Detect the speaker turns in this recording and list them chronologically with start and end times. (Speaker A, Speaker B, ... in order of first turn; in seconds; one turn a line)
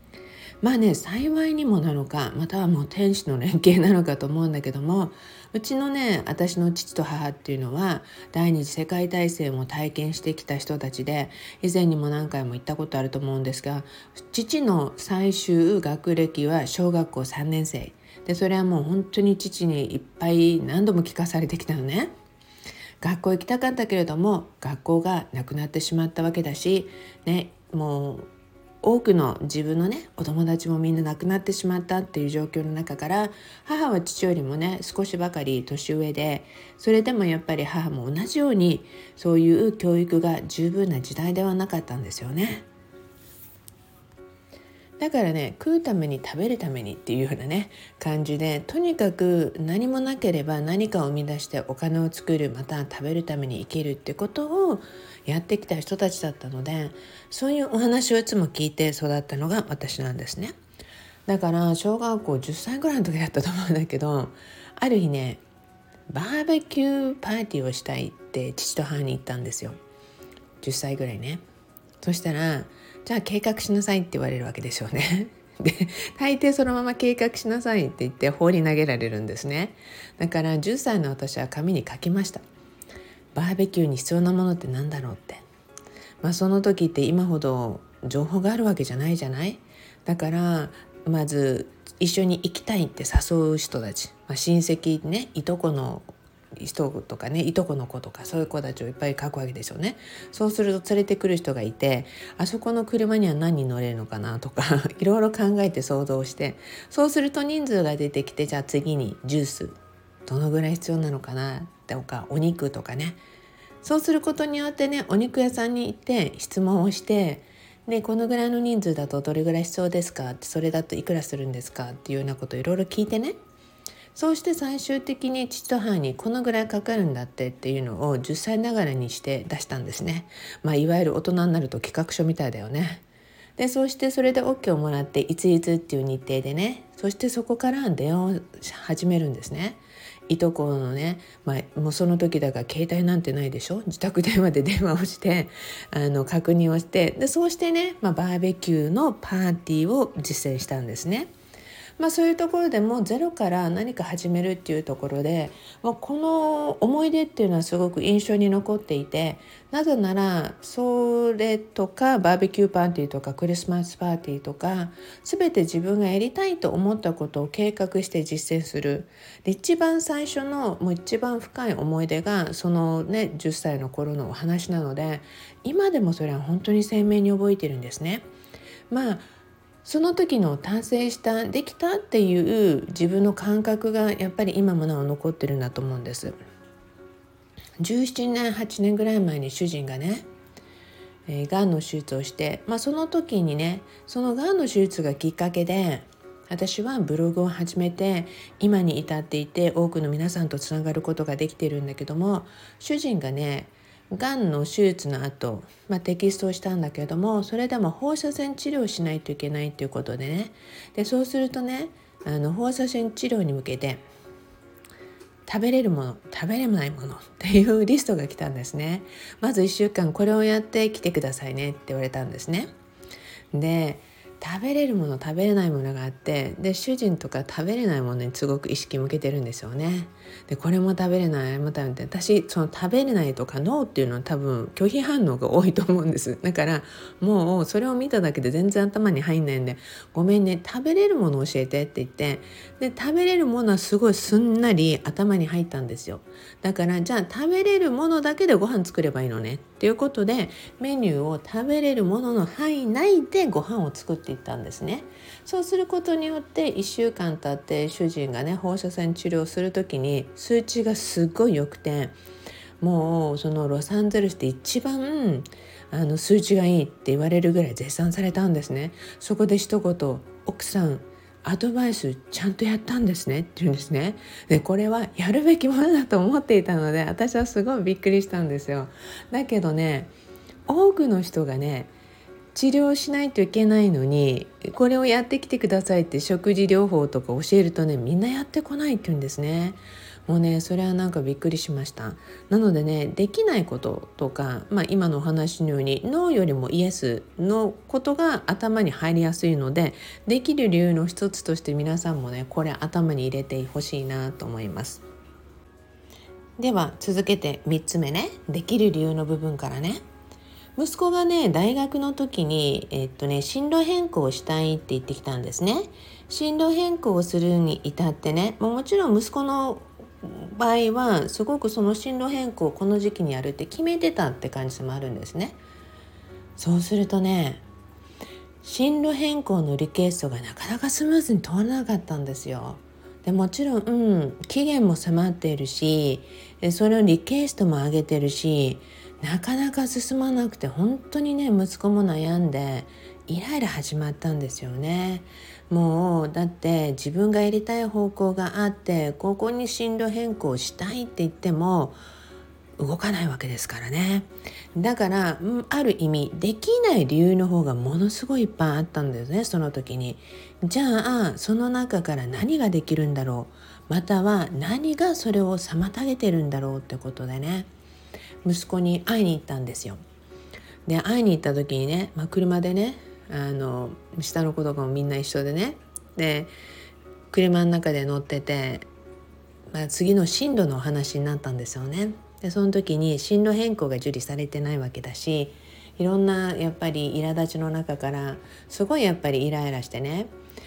Speaker A: 0.6-22.1
Speaker A: 23.0-28.3
Speaker A: 28.8-42.6
Speaker A: 45.0-60.5
Speaker A: 61.3-65.4
Speaker A: 66.1-69.8
Speaker A: 70.6-71.4
Speaker A: 72.0-82.4
Speaker A: 83.3-85.4
Speaker A: 86.2-113.2
Speaker A: 113.8-123.3
Speaker A: 124.1-133.0
Speaker A: 133.6-151.3
Speaker A: 152.0-178.2
Speaker A: 178.9-179.3
Speaker A: 179.8-186.3
Speaker A: 187.8-190.2
Speaker A: 191.3-214.0
Speaker A: 215.4-222.7
Speaker A: 223.5-262.1
Speaker A: 262.8-280.1
Speaker A: 280.7-281.9
Speaker A: 282.5-305.0
Speaker A: 306.6-310.0
Speaker A: 310.8-325.6
Speaker A: 326.6-327.6
Speaker A: 328.6-352.0
Speaker A: 352.8-367.7
Speaker A: 368.4-370.0
Speaker A: 370.9-376.5
Speaker A: 377.3-378.9
Speaker A: 379.7-390.3